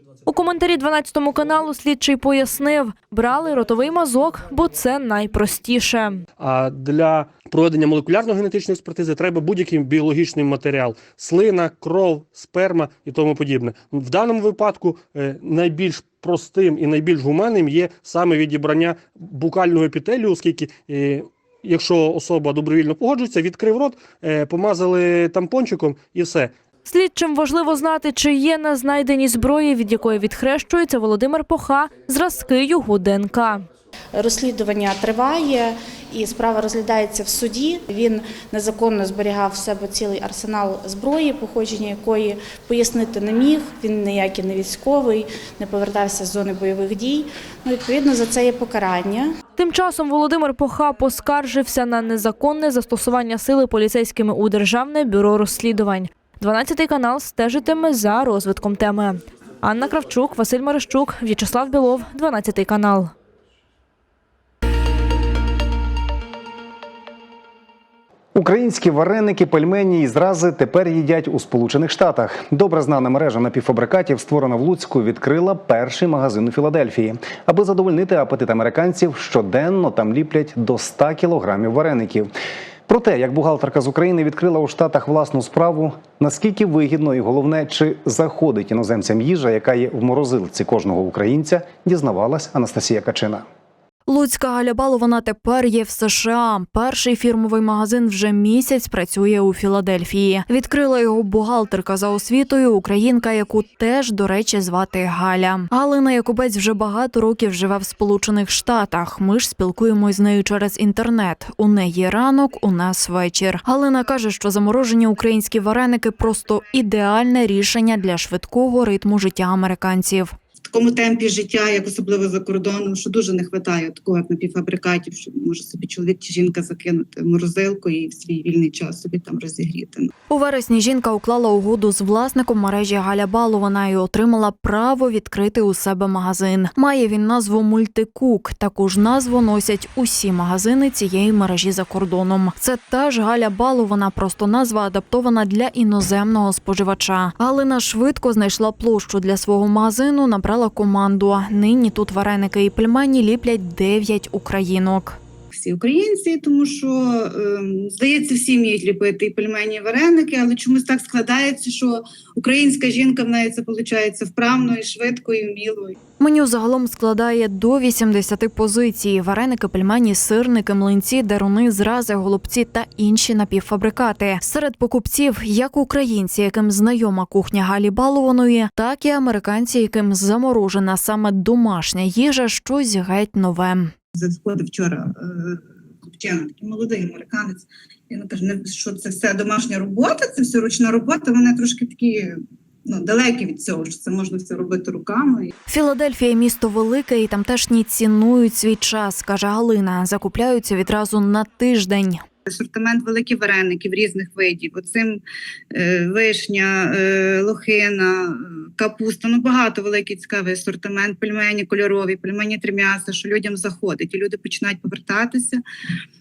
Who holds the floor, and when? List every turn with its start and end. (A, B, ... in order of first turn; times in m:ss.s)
0:00.3-0:06.2 A
0:06.4-0:26.5 B
0:26.9-0:33.7 A
0:34.2-0:49.4 C
0:49.6-1:03.1 A
1:08.4-1:22.3 D
1:22.9-1:33.4 D
1:34.1-2:00.4 E
2:00.7-2:10.1 F
2:10.3-2:35.2 E
2:35.5-2:46.0 F
2:46.2-3:03.9 E
3:04.2-3:15.5 F
3:15.7-3:22.2 E
3:22.5-3:25.2 F
3:25.7-3:35.6 F